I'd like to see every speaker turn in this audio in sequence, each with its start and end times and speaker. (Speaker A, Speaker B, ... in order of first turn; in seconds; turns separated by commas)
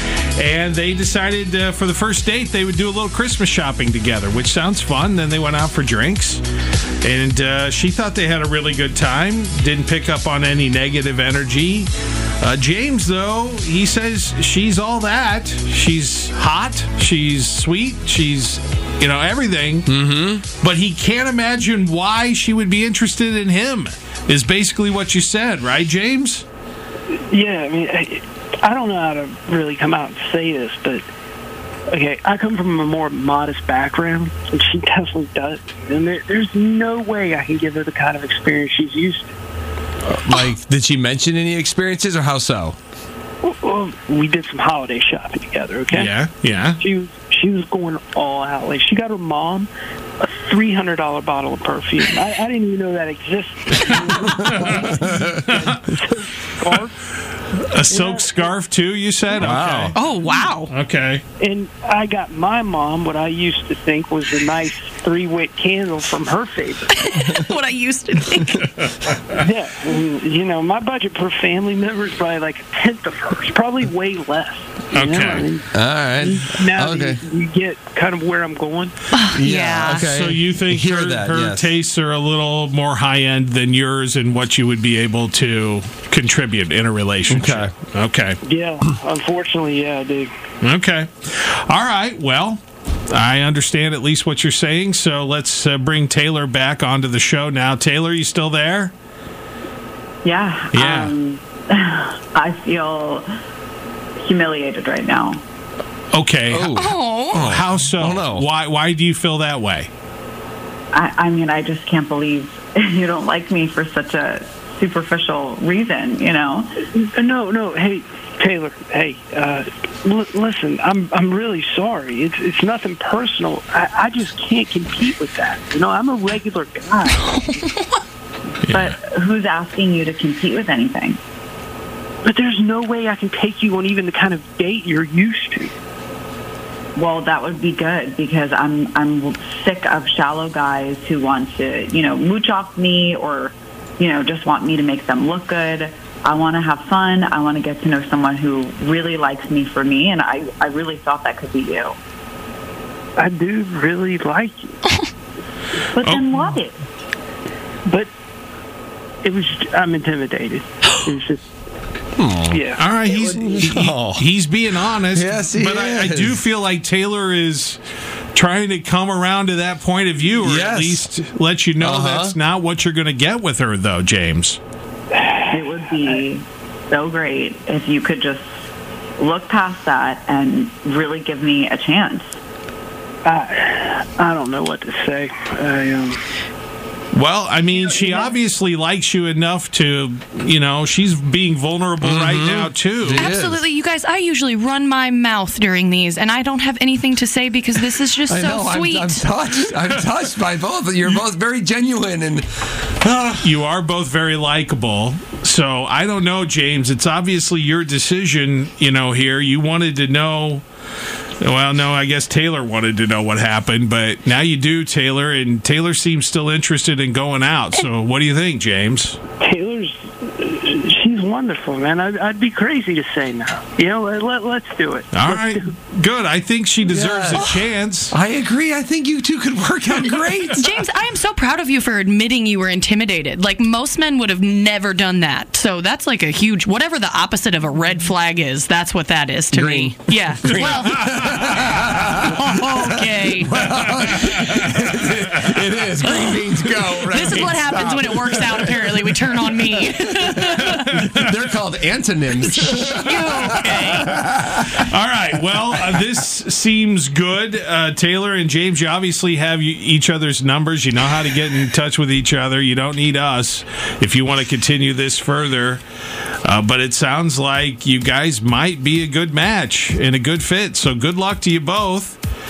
Speaker A: 0.4-6.4, Speaker A: 7.0-19.9, Speaker B: 19.9-20.4, Speaker A: 20.6-26.4, Speaker C: 27.1-31.0, Speaker C: 31.9-39.3, Speaker B: 40.0-42.8, Speaker C: 43.4-46.2, Speaker A: 45.9-46.8, Speaker C: 46.8-49.7, Speaker C: 50.2-56.9, Speaker A: 54.4-55.8, Speaker A: 57.5-60.0, Speaker C: 57.9-58.5, Speaker B: 59.4-60.0, Speaker D: 59.9-60.7, Speaker A: 60.7-61.2, Speaker C: 61.4-67.0, Speaker D: 66.9-68.7, Speaker C: 69.4-78.9, Speaker A: 74.9-75.5, Speaker B: 75.7-77.2, Speaker D: 79.1-80.1, Speaker B: 79.3-81.7, Speaker A: 80.0-88.4, Speaker B: 87.3-87.7, Speaker C: 88.4-90.3, Speaker A: 90.6-98.9, Speaker E: 100.2-103.2, Speaker A: 100.7-101.2, Speaker E: 104.2-105.4, Speaker A: 106.1-106.8, Speaker B: 106.5-108.5, Speaker D: 106.7-107.4, Speaker A: 107.3-109.9, Speaker E: 110.9-116.8, Speaker C: 117.1-127.2, Speaker D: 127.3-128.0, Speaker E: 128.7-131.2, Speaker C: 132.2-135.7, Speaker E: 136.9-152.0, Speaker C: 153.2-154.8, Speaker E: 155.9-156.8, Speaker A: 156.0-156.5, Speaker C: 159.2-161.4, Speaker B: 162.2-162.6, Speaker C: 162.5-162.9, Speaker A: 162.8-167.8, Speaker E: 163.2-163.6, Speaker B: 163.3-164.2, Speaker B: 165.0-166.4, Speaker A: 168.3-174.6, Speaker B: 170.4-171.1, Speaker B: 171.8-172.3, Speaker E: 175.5-178.5, Speaker E: 179.2-182.3, Speaker C: 183.2-186.2, Speaker A: 187.1-193.3, Speaker C: 187.9-188.3, Speaker B: 192.0-193.6, Speaker D: 193.1-199.2, Speaker B: 198.3-202.4, Speaker B: 203.0-203.5, Speaker A: 203.4-210.6, Speaker A: 211.4-219.2, Speaker C: 219.4-225.7, Speaker A: 225.1-228.1, Speaker B: 226.8-227.5, Speaker B: 228.1-230.8, Speaker D: 230.5-241.8, Speaker B: 239.5-242.4, Speaker D: 242.3-243.6, Speaker B: 243.1-254.6, Speaker D: 246.0-246.4, Speaker D: 247.0-251.0, Speaker D: 252.5-254.2, Speaker A: 254.1-265.8, Speaker A: 266.4-272.2